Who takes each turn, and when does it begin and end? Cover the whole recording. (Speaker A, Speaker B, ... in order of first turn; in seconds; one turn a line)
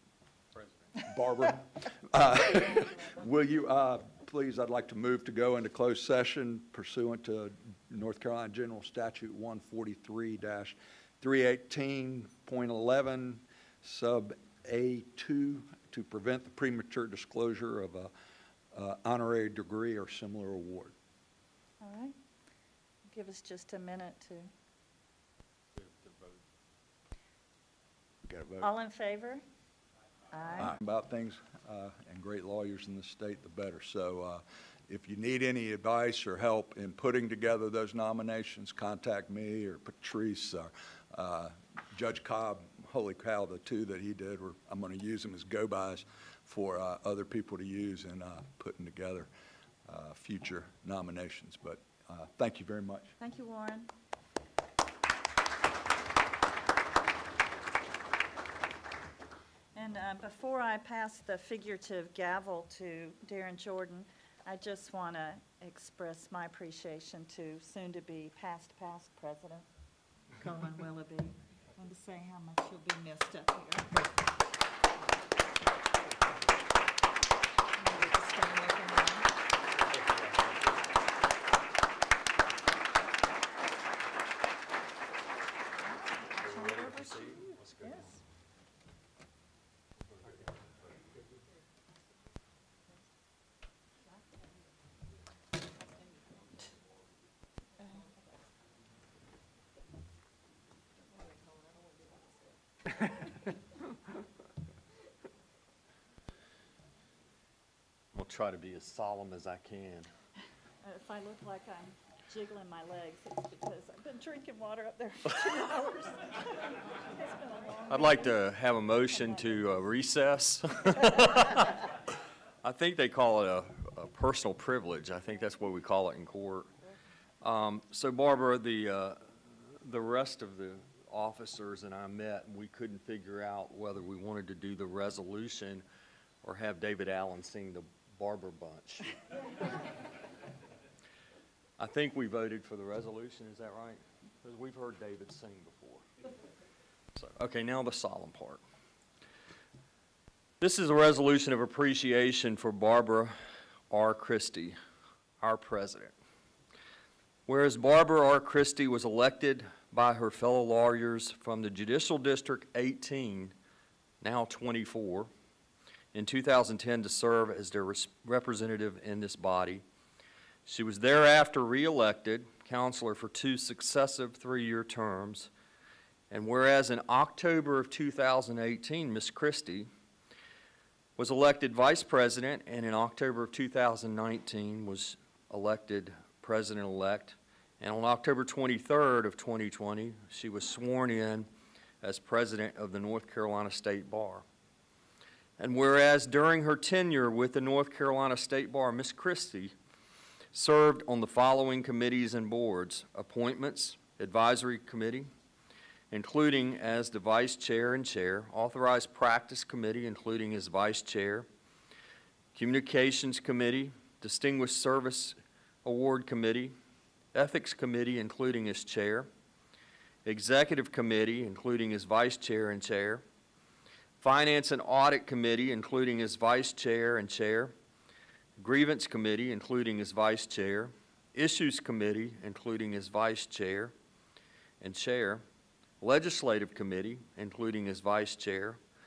Speaker A: 0.9-18.1
Speaker A: 18.7-20.9
Speaker B: 21.8-22.1
Speaker B: 23.1-24.5
Speaker A: 25.8-26.1
Speaker A: 28.2-28.7
Speaker B: 28.6-29.4
Speaker B: 30.3-30.7
Speaker A: 30.6-49.3
Speaker A: 49.9-53.1
Speaker B: 53.2-53.9
Speaker B: 59.7-69.6
Speaker B: 70.4-74.1
Speaker B: 77.8-79.3
Speaker B: 86.2-88.2
Speaker C: 108.1-110.1
Speaker B: 110.8-118.4
Speaker C: 117.9-121.6
Speaker B: 119.2-119.6
Speaker C: 122.6-126.7
Speaker C: 127.4-129.2
Speaker C: 129.8-135.8
Speaker C: 136.4-139.1
Speaker C: 141.8-146.1
Speaker C: 147.2-148.6
Speaker C: 150.6-153.3
Speaker C: 153.9-154.8
Speaker C: 155.4-156.2
Speaker C: 157.5-163.5
Speaker C: 164.2-165.3
Speaker C: 166.1-169.8
Speaker C: 170.7-175.5
Speaker C: 176.3-179.9
Speaker C: 181.2-191.5
Speaker C: 192.0-194.4
Speaker C: 195.6-199.7
Speaker C: 200.5-205.3
Speaker C: 206.1-211.5
Speaker C: 212.5-216.7
Speaker C: 217.3-219.3
Speaker C: 220.2-223.2
Speaker C: 224.2-227.7
Speaker C: 228.6-233.9
Speaker C: 234.8-235.4
Speaker C: 236.0-238.8